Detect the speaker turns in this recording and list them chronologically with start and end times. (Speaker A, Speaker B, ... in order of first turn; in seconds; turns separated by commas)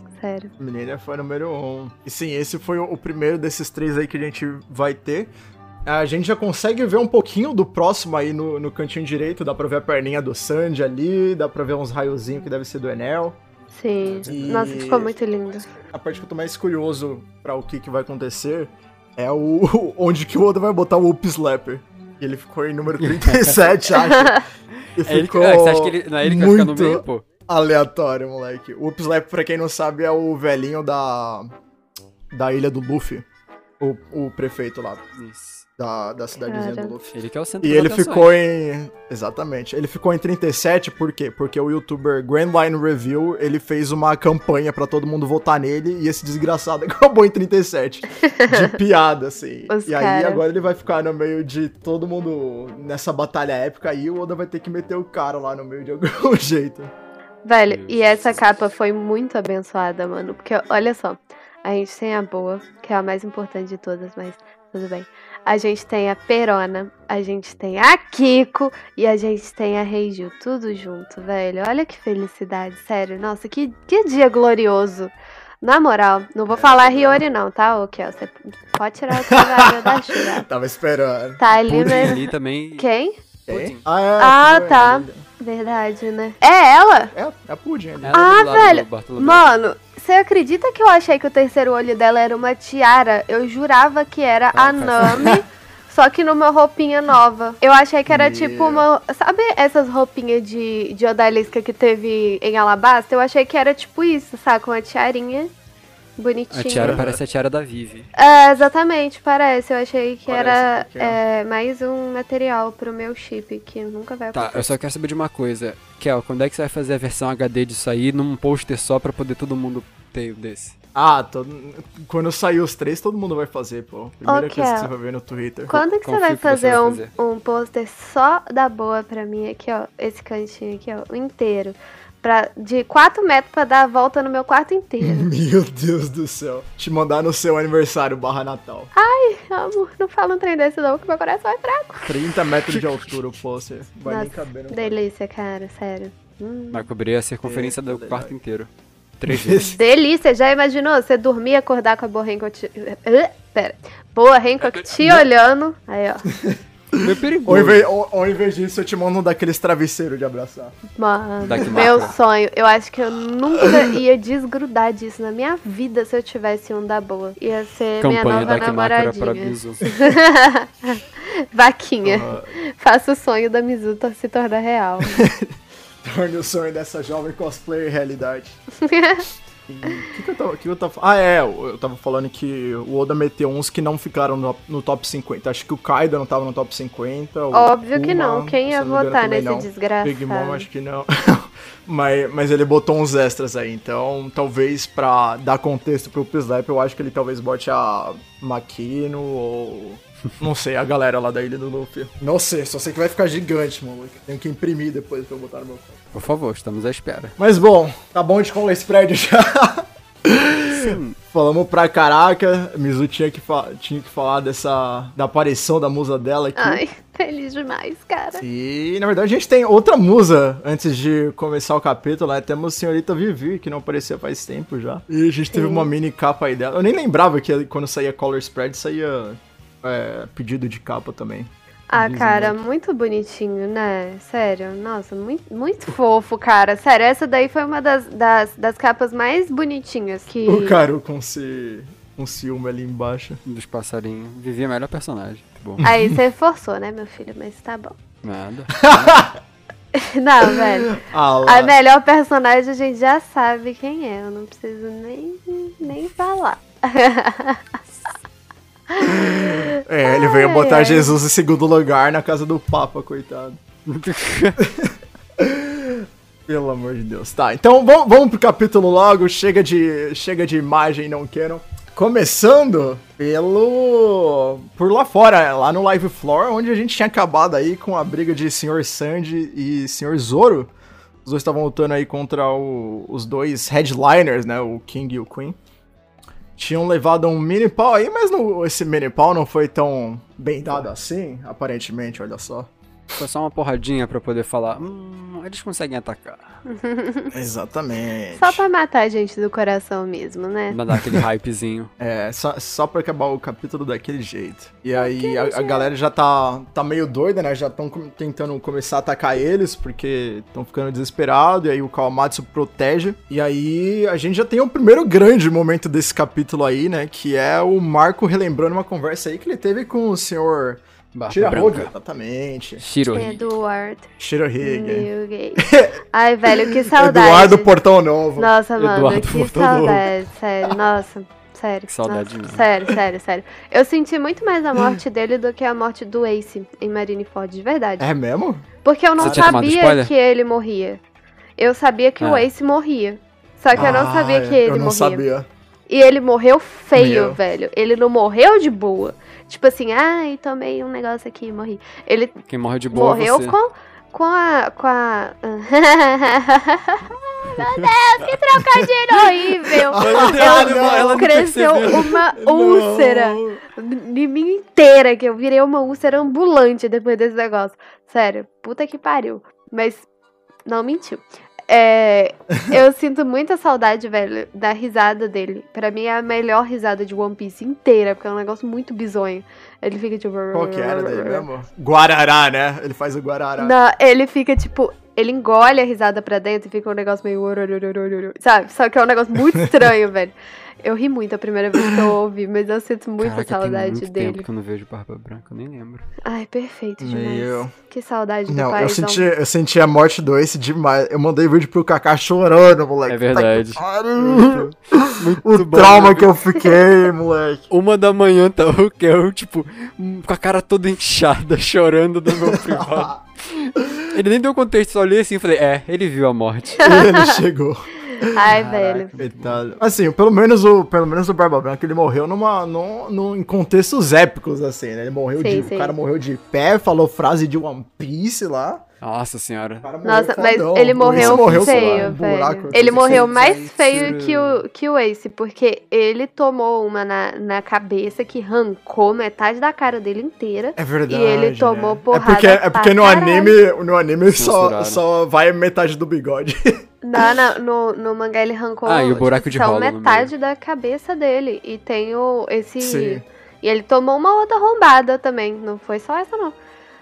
Speaker A: 0.2-0.5, Speaker B: 0.6-5.3, Speaker B: 5.8-13.4, Speaker A: 13.7-15.7, Speaker C: 14.0-14.6, Speaker B: 14.2-15.2, Speaker B: 15.7-31.5, Speaker C: 23.0-23.6, Speaker A: 23.9-24.4, Speaker C: 25.0-27.2, Speaker B: 32.3-33.2, Speaker B: 33.8-35.1, Speaker C: 35.1-35.6, Speaker B: 35.8-56.9, Speaker A: 36.4-36.9, Speaker C: 37.1-38.3, Speaker A: 48.1-48.8, Speaker A: 49.7-50.4, Speaker A: 57.4-80.5, Speaker C: 57.7-58.4, Speaker B: 76.5-77.2, Speaker B: 79.2-82.3, Speaker A: 81.4-82.2, Speaker C: 81.7-82.8, Speaker A: 82.8-83.2, Speaker B: 83.5-85.2, Speaker C: 83.5-83.8, Speaker A: 84.2-87.1, Speaker B: 87.1-88.1, Speaker C: 88.0-89.4, Speaker A: 88.1-105.5, Speaker C: 94.5-95.4, Speaker B: 98.1-98.9, Speaker A: 106.2-107.0, Speaker C: 106.5-108.1, Speaker B: 106.8-107.2, Speaker A: 108.1-114.8, Speaker B: 110.3-111.2, Speaker C: 114.3-120.7, Speaker B: 120.9-125.8, Speaker A: 124.2-124.9, Speaker A: 125.7-135.3, Speaker C: 126.0-127.1, Speaker B: 135.0-138.9, Speaker A: 138.9-142.1, Speaker B: 142.0-145.0, Speaker C: 142.7-143.0, Speaker A: 144.1-146.8, Speaker C: 146.7-149.6, Speaker B: 147.4-148.3, Speaker B: 149.3-149.8, Speaker A: 149.6-156.3, Speaker B: 155.0-155.2, Speaker B: 156.3-160.8, Speaker C: 157.0-157.8, Speaker A: 160.9-175.3, Speaker C: 161.4-162.1, Speaker B: 161.5-162.1, Speaker B: 163.6-163.9, Speaker C: 168.0-169.8, Speaker B: 172.0-172.5, Speaker B: 175.0-178.6, Speaker A: 178.8-179.2, Speaker B: 179.7-206.0, Speaker A: 187.5-190.7, Speaker C: 206.1-207.3, Speaker B: 207.4-216.8, Speaker C: 210.7-211.2, Speaker A: 216.6-218.4, Speaker B: 218.4-232.5, Speaker A: 225.5-225.9, Speaker A: 231.9-240.8, Speaker B: 240.4-243.4, Speaker C: 243.4-245.8, Speaker B: 245.8-246.2, Speaker A: 245.8-248.0, Speaker C: 248.2-249.3, Speaker B: 248.8-249.3, Speaker A: 249.9-257.6, Speaker B: 250.5-251.8, Speaker A: 258.9-261.2, Speaker B: 259.0-263.6, Speaker C: 263.9-264.6, Speaker B: 264.6-280.7, Speaker B: 281.2-285.6, Speaker B: 286.6-292.7, Speaker C: 293.2-296.4, Speaker A: 296.6-297.3, Speaker B: 297.3-298.6, Speaker A: 298.4-300.8, Speaker C: 300.7-301.9, Speaker B: 300.9-301.2, Speaker B: 302.0-322.8, Speaker A: 304.9-305.9, Speaker C: 321.1-321.9, Speaker C: 322.8-323.4, Speaker A: 323.1-327.7, Speaker B: 324.2-328.5, Speaker A: 328.4-338.1, Speaker C: 328.8-330.1, Speaker C: 331.9-332.6, Speaker B: 338.0-338.6, Speaker A: 338.8-341.0, Speaker C: 339.2-340.1, Speaker B: 339.2-339.6, Speaker A: 341.6-345.2, Speaker C: 342.2-342.5, Speaker B: 343.7-345.5, Speaker A: 345.9-352.4, Speaker B: 346.9-347.4, Speaker C: 352.5-353.6, Speaker A: 352.9-370.1, Speaker C: 357.6-357.8, Speaker B: 359.7-361.3, Speaker C: 359.9-362.2, Speaker B: 362.4-363.6, Speaker A: 370.6-381.4, Speaker B: 372.5-372.8, Speaker B: 380.5-383.7, Speaker A: 383.6-394.4, Speaker C: 393.2-396.1, Speaker A: 396.2-399.3, Speaker B: 397.0-397.7, Speaker B: 398.5-407.7, Speaker C: 403.1-406.4, Speaker C: 407.7-416.9, Speaker B: 412.3-413.2, Speaker B: 413.8-414.2, Speaker A: 416.8-417.4, Speaker B: 416.8-428.8, Speaker A: 418.1-419.1, Speaker C: 418.4-419.6, Speaker A: 425.4-425.9, Speaker C: 429.0-429.9, Speaker B: 429.8-433.3, Speaker A: 430.0-443.6, Speaker C: 431.0-434.6, Speaker B: 440.8-447.3, Speaker C: 444.3-445.0, Speaker A: 447.0-456.5, Speaker C: 448.9-450.3, Speaker B: 452.8-453.2